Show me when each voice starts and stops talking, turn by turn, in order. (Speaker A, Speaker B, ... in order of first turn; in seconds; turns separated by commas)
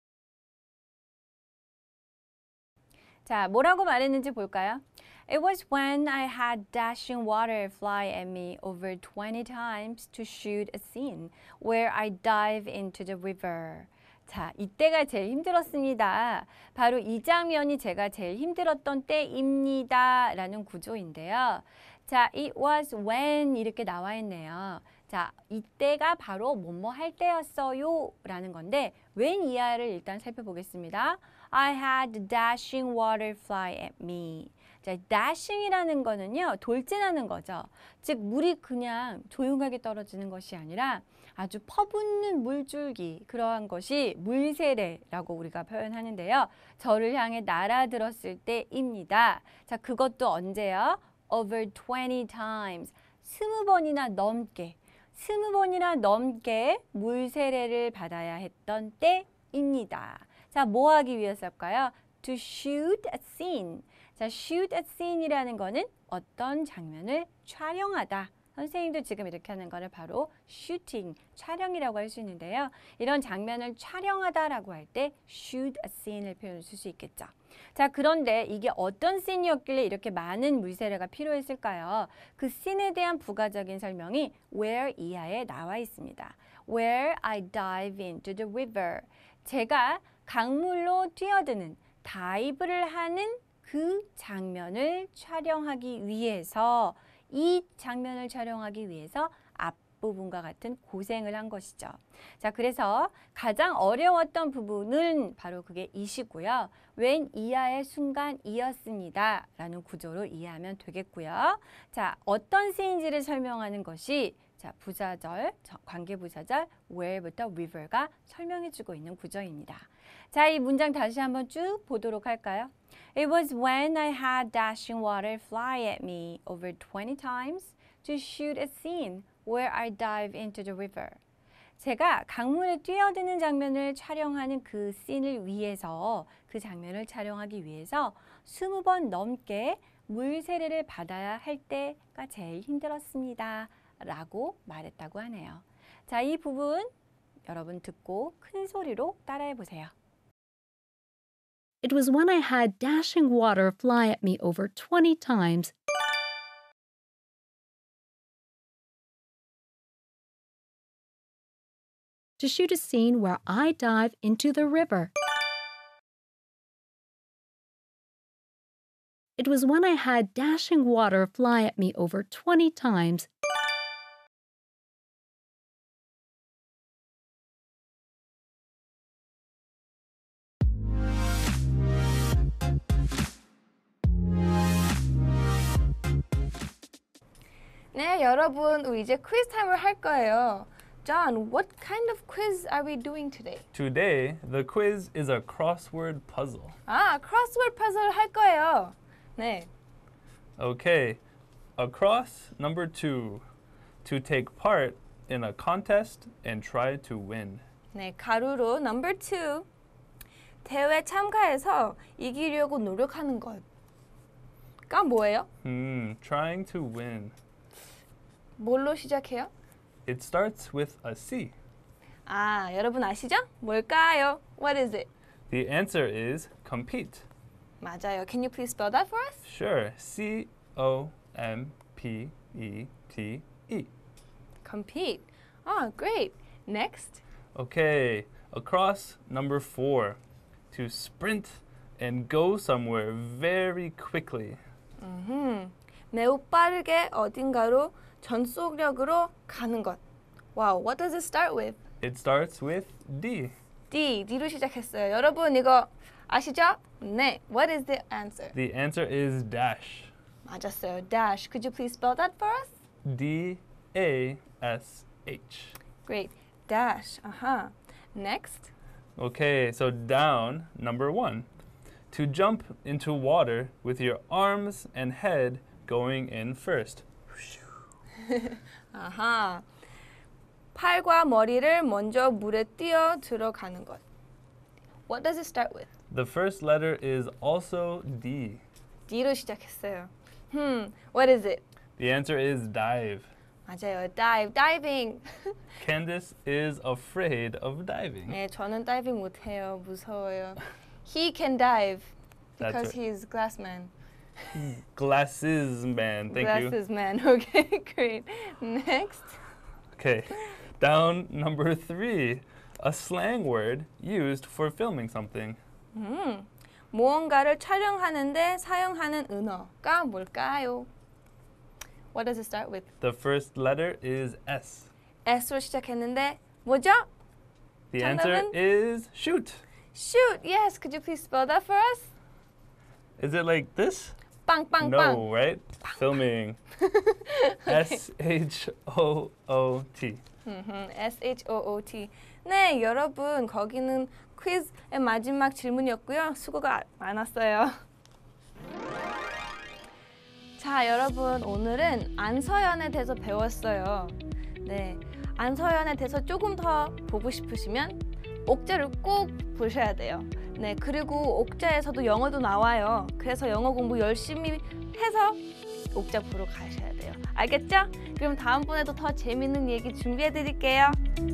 Speaker A: 3.2-131.2, Speaker A: 131.8-146.9, Speaker A: 147.4-149.9, Speaker B: 151.8-155.7, Speaker B: 162.4-165.1, Speaker B: 169.4-173.3, Speaker C: 187.9-193.6, Speaker D: 193.7-196.8, Speaker C: 196.9-199.7, Speaker D: 200.6-201.2, Speaker D: 201.8-203.4, Speaker D: 204.0-207.6, Speaker C: 207.9-209.7, Speaker C: 210.6-213.6, Speaker C: 214.9-215.5, Speaker D: 215.6-217.3, Speaker C: 218.6-219.5, Speaker D: 220.1-221.5, Speaker C: 222.3-225.1, Speaker D: 225.5-227.3, Speaker C: 227.8-229.4, Speaker D: 229.4-233.9, Speaker C: 234.6-237.2, Speaker D: 237.5-240.2, Speaker D: 240.7-244.6, Speaker C: 245.0-250.0, Speaker C: 250.5-251.8, Speaker D: 252.0-253.5, Speaker C: 253.9-258.5, Speaker D: 258.5-260.1, Speaker C: 260.4-262.7, Speaker D: 263.0-265.8, Speaker C: 266.0-268.7, Speaker D: 269.2-271.5, Speaker D: 272.1-277.0, Speaker C: 278.2-279.6, Speaker C: 280.7-284.0, Speaker C: 285.1-285.9, Speaker D: 286.1-288.6, Speaker C: 289.1-291.6, Speaker D: 292.0-293.3, Speaker C: 293.7-295.5, Speaker D: 295.8-298.4, Speaker C: 298.3-303.9, Speaker D: 302.6-302.9, Speaker D: 304.5-306.8, Speaker C: 306.3-309.4, Speaker D: 310.0-315.6, Speaker C: 315.9-320.9, Speaker C: 322.1-322.9, Speaker D: 323.0-324.9, Speaker C: 325.2-327.1, Speaker D: 327.9-329.6, Speaker C: 328.0-328.5, Speaker C: 329.9-332.1, Speaker D: 333.2-334.2, Speaker C: 334.5-335.2, Speaker D: 334.8-336.6, Speaker C: 336.8-338.0, Speaker D: 337.6-340.2, Speaker C: 340.4-347.8, Speaker C: 350.6-365.4, Speaker C: 365.9-371.0